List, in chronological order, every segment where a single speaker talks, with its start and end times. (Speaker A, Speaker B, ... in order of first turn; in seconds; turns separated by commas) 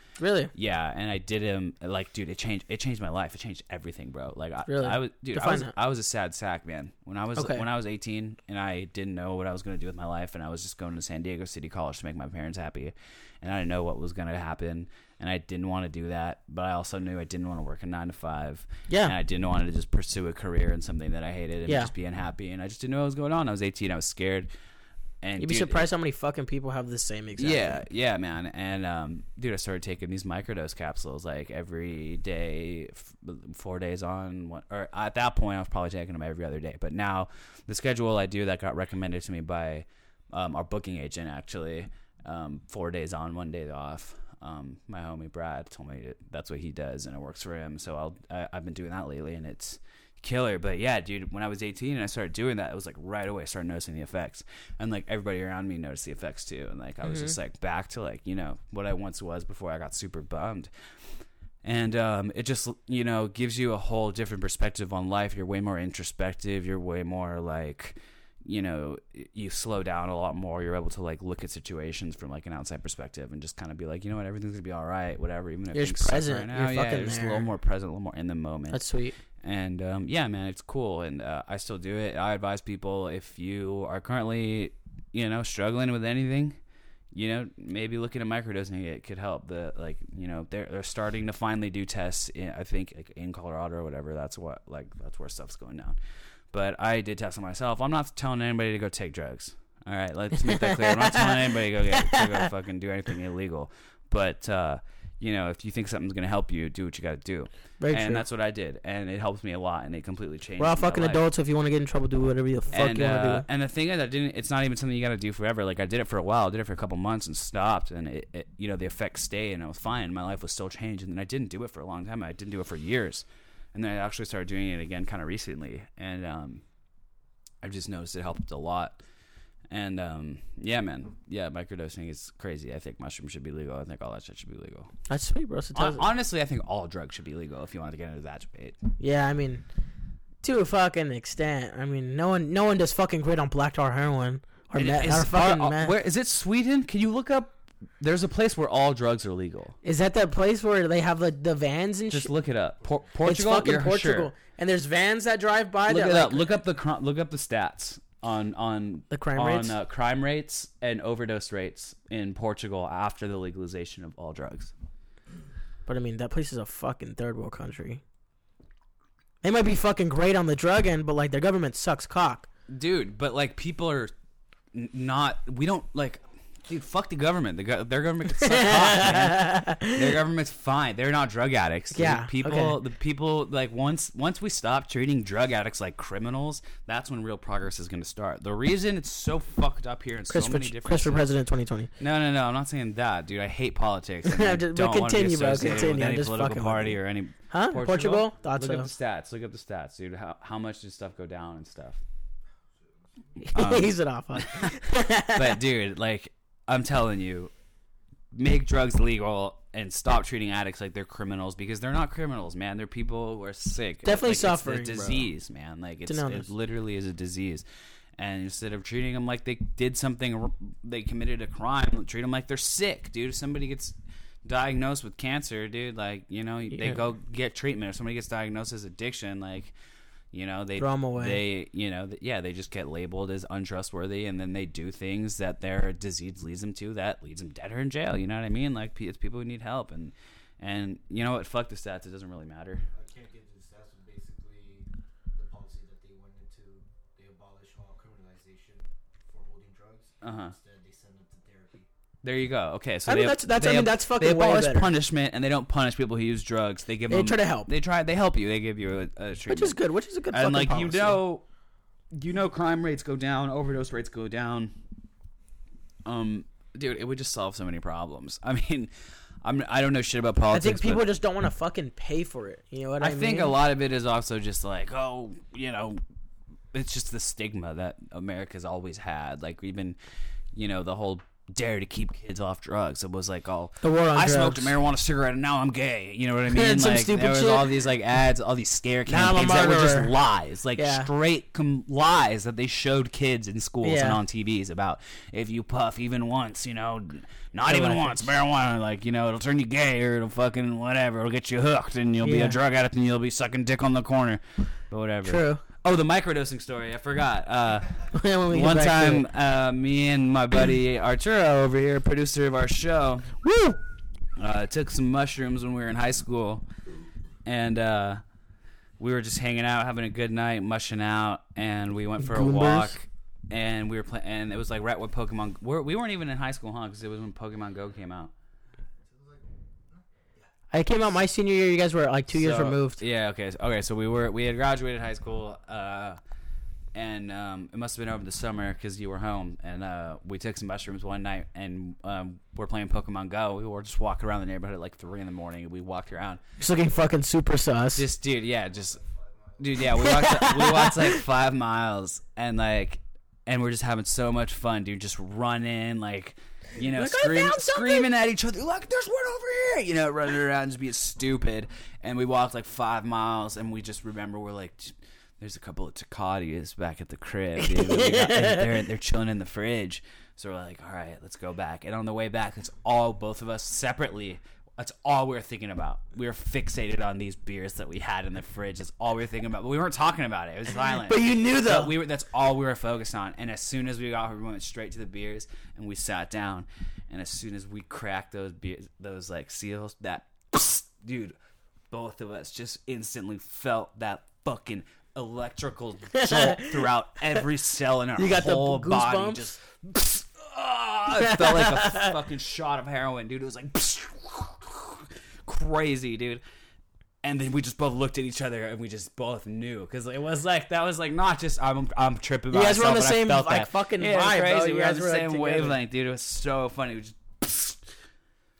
Speaker A: 0.2-0.5, Speaker B: 0.5-24.5, Speaker A: 4.7-5.7, Speaker A: 7.4-7.6, Speaker A: 18.9-19.1, Speaker A: 21.6-21.9, Speaker B: 25.2-25.9, Speaker A: 25.4-27.8, Speaker B: 27.4-78.8, Speaker A: 57.0-57.3, Speaker A: 75.7-77.5, Speaker A: 78.7-79.1, Speaker B: 79.4-86.6, Speaker B: 87.1-96.0, Speaker B: 96.5-111.2, Speaker A: 100.4-102.4, Speaker A: 107.8-108.2, Speaker A: 110.6-113.4, Speaker B: 112.7-126.6, Speaker B: 127.6-129.0, Speaker B: 129.7-134.9, Speaker A: 135.1-136.1, Speaker B: 135.7-138.8, Speaker A: 139.0-139.6, Speaker A: 140.4-145.9, Speaker B: 144.7-149.8, Speaker A: 149.8-152.3, Speaker B: 152.1-154.3, Speaker A: 153.2-156.5, Speaker B: 155.9-164.7, Speaker A: 159.1-159.7, Speaker A: 165.9-168.0, Speaker A: 169.4-172.5, Speaker B: 172.7-174.1, Speaker B: 174.7-191.3, Speaker A: 178.4-180.1, Speaker A: 181.9-182.7, Speaker A: 190.3-191.9, Speaker B: 192.0-202.0, Speaker A: 194.2-197.0, Speaker A: 197.5-198.9, Speaker C: 202.8-203.4, Speaker A: 203.4-205.6, Speaker B: 203.5-207.5, Speaker B: 208.3-217.6, Speaker A: 214.0-215.3, Speaker A: 216.1-216.5, Speaker B: 218.2-229.7, Speaker B: 230.3-242.8, Speaker A: 230.8-231.4, Speaker C: 242.9-251.9, Speaker B: 250.2-250.5, Speaker B: 252.2-259.8, Speaker A: 253.1-254.9, Speaker A: 257.1-257.7, Speaker A: 259.5-261.2, Speaker B: 260.3-261.4, Speaker B: 262.1-264.7, Speaker B: 266.0-268.9, Speaker B: 269.4-271.0, Speaker A: 270.5-273.5, Speaker B: 273.0-276.0, Speaker B: 276.7-280.0, Speaker B: 280.5-313.4, Speaker A: 283.8-284.7, Speaker A: 286.5-287.8, Speaker A: 289.1-290.1, Speaker A: 290.8-291.1, Speaker A: 293.8-294.2, Speaker A: 297.7-298.3, Speaker A: 302.2-302.6, Speaker A: 305.2-305.6, Speaker A: 308.1-309.2, Speaker A: 313.4-313.8, Speaker B: 314.4-316.6, Speaker B: 317.4-318.2, Speaker B: 319.0-328.3, Speaker A: 322.2-322.9, Speaker C: 329.0-330.0, Speaker A: 330.7-333.0, Speaker B: 332.3-336.2, Speaker B: 336.9-346.4, Speaker A: 346.6-348.1, Speaker B: 347.9-349.0, Speaker C: 348.5-350.2, Speaker B: 349.6-391.4, Speaker A: 350.0-351.2, Speaker A: 356.8-358.1, Speaker A: 367.7-368.6, Speaker A: 381.0-381.9, Speaker B: 391.9-406.4, Speaker A: 396.1-396.8, Speaker A: 398.2-399.6, Speaker A: 401.2-402.1, Speaker B: 407.2-417.9, Speaker A: 412.5-415.8